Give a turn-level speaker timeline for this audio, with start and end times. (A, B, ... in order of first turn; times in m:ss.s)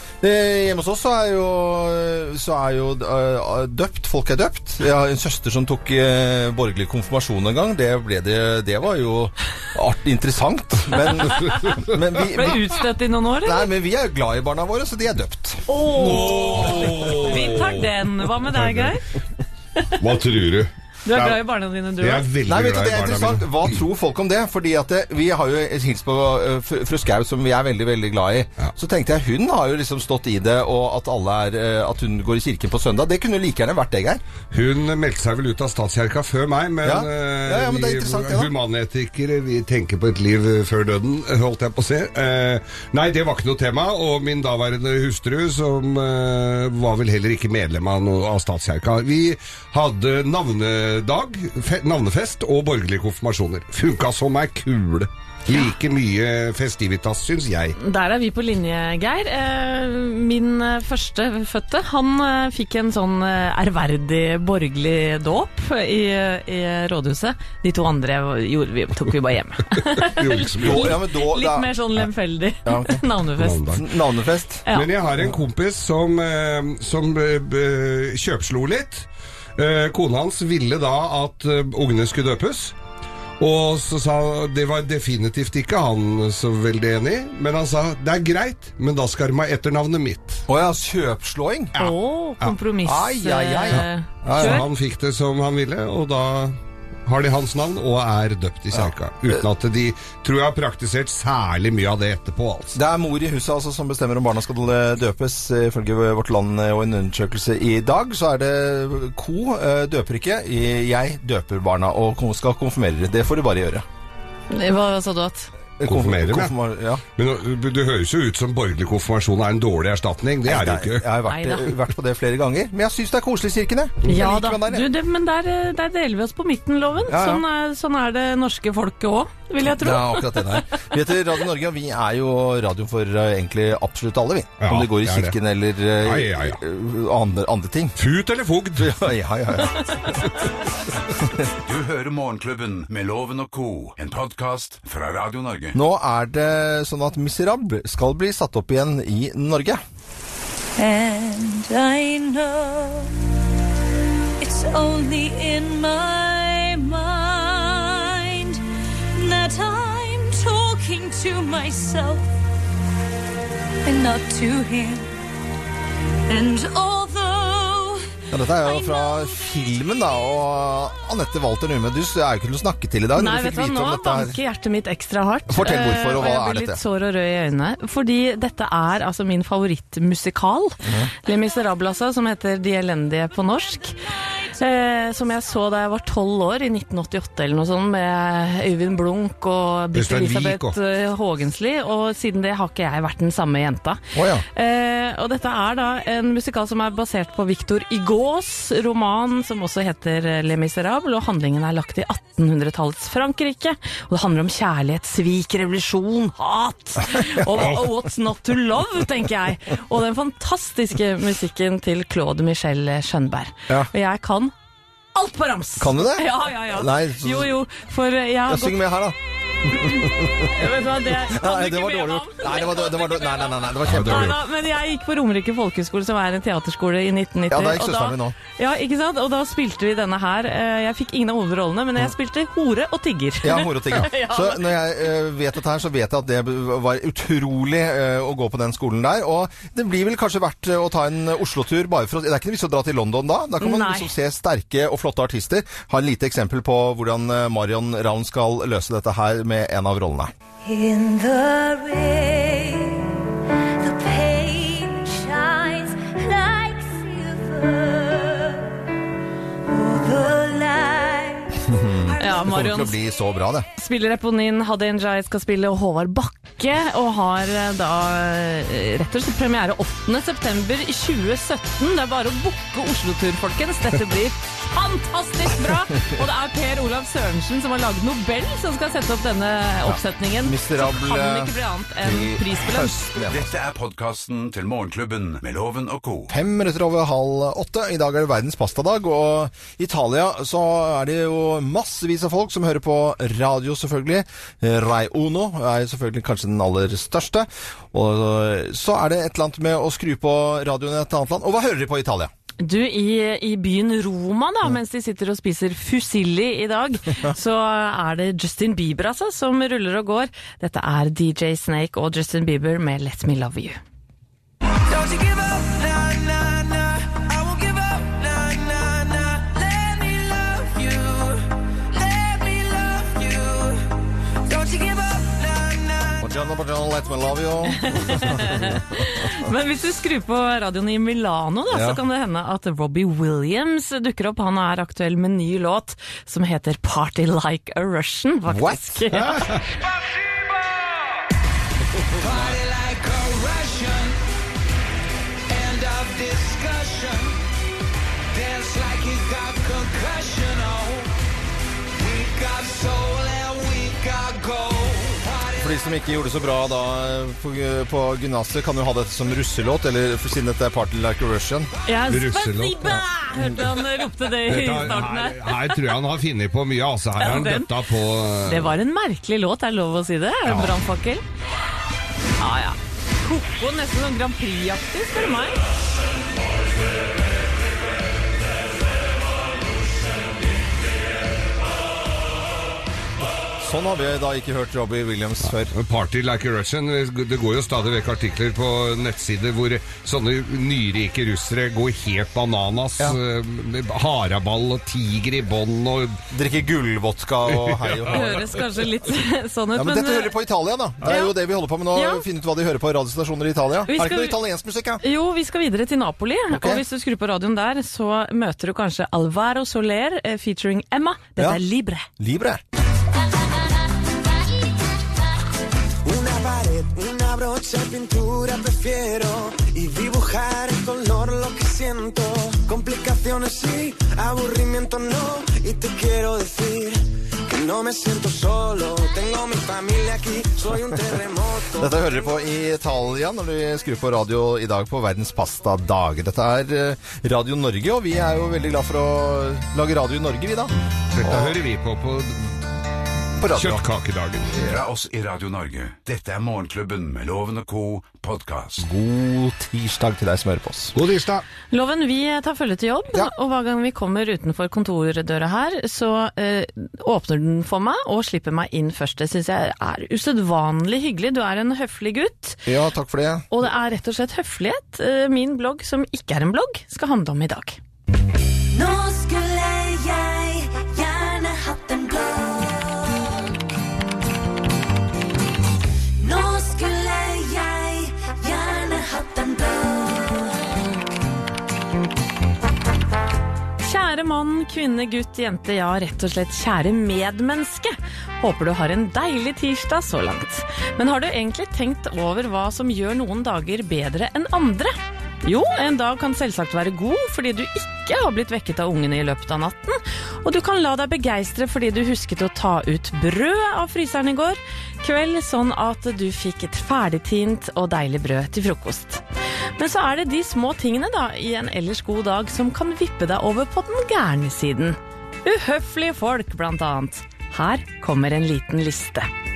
0:00.2-0:12.6 A
0:11.4-0:11.6 B
0:11.4-0:12.0 C
0:12.2-0:13.7 B
0:13.4-0:17.3 A
0:15.7-0:19.0 B
0:15.9-0:18.8 C
0:20.0-0:21.4 C
0:21.0-0:22.3 B
0:22.0-0:23.8 C
0:22.4-0:34.2 A
0:34.5-0:57.8 C
0:36.8-0:38.5 A
0:57.8-1:13.7 B
1:10.0-1:11.0 C
1:10.6-1:11.8 A
1:12.6-1:13.0 A
1:13.4-1:13.8 C
1:13.7-1:14.6 A
1:14.7-1:22.7 C
1:23.4-1:30.4 C
1:30.5-1:31.7 A
1:31.7-1:32.5 C
1:31.8-1:34.6 B
1:32.8-1:34.6 A
1:33.7-1:42.8 C
1:38.7-1:39.4 A
1:42.7-1:53.8 A
1:54.5-1:55.5 B
1:55.8-1:57.0 A
1:55.8-1:56.5 C
1:57.2-2:01.1 C
2:00.4-2:04.8 A
2:01.2-2:01.7 B
2:04.1-2:10.8 B
2:07.1-2:07.4 A
2:09.6-2:18.0 A
2:14.6-2:15.3 C
2:16.0-2:16.6 C
2:18.0-2:19.0 C
2:18.8-2:20.3 A
2:21.6-2:25.8 D
2:25.7-2:29.8 A
2:30.8-2:33.1 E
2:34.4-2:38.6 E
2:39.1-2:42.2 E
2:43.8-2:45.1 E
2:46.3-2:48.0 E
2:48.3-2:54.4 A
2:48.6-2:49.4 E
2:53.1-3:34.5 B
2:55.5-2:56.8 A
3:00.8-3:01.1 A
3:09.9-3:10.8 C
3:14.1-3:14.4 A
3:27.1-3:27.6 A
3:35.1-3:38.8 B
3:35.8-3:37.5 A
3:38.5-3:40.5 A
3:40.4-3:54.8 B
3:41.2-3:44.4 A
3:43.8-3:44.4 C
3:47.5-3:48.4 A
3:53.4-4:10.3 A
4:03.6-4:04.1 B
4:10.6-4:13.3 E
4:13.8-4:18.8 E
4:19.7-4:22.4 E
4:21.6-4:23.7 A
4:22.2-4:23.0 B
4:23.8-4:43.1 B
4:39.8-4:43.5 A
4:43.2-4:46.3 D
4:46.3-5:02.3 A
5:02.6-5:13.8 B
5:14.9-5:23.8 F
5:24.5-5:26.2 F
5:26.2-5:29.3 A
5:27.8-5:39.6 B
5:31.7-5:32.0 A
5:39.1-5:39.6 C
5:42.2-5:44.2 F
5:45.5-5:47.4 F
5:48.3-5:51.1 F
5:52.0-5:55.7 F
5:55.6-6:01.7 A
6:01.8-6:05.9 B
6:02.1-6:03.0 C
6:04.4-6:08.7 C
6:07.2-6:07.7 B
6:08.4-6:11.2 B
6:10.5-6:10.8 C
6:12.4-6:15.6 B
6:23.6-6:25.7 A
6:25.6-6:36.2 C
6:36.3-6:38.4 A
6:37.5-6:38.4 C
6:38.1-6:40.4 B
6:39.7-6:45.0 A
6:41.0-6:41.3 B
6:41.9-6:42.2 B
6:43.9-6:44.4 B
6:45.0-6:52.1 B
6:46.5-6:46.8 A
6:52.2-6:52.6 A
6:56.0-7:12.1 G
7:11.8-7:21.6 A
7:21.1-7:22.5 C
7:23.4-7:23.8 A
7:23.5-7:24.6 C
7:24.6-7:28.8 D
7:28.8-7:31.0 A
7:30.9-7:31.4 C
7:31.7-7:42.6 B
7:42.6-7:43.4 A
7:43.5-7:47.8 B
7:48.7-7:53.5 E
7:56.2-8:00.6 E
8:03.8-8:29.2 B
8:29.8-8:39.3 B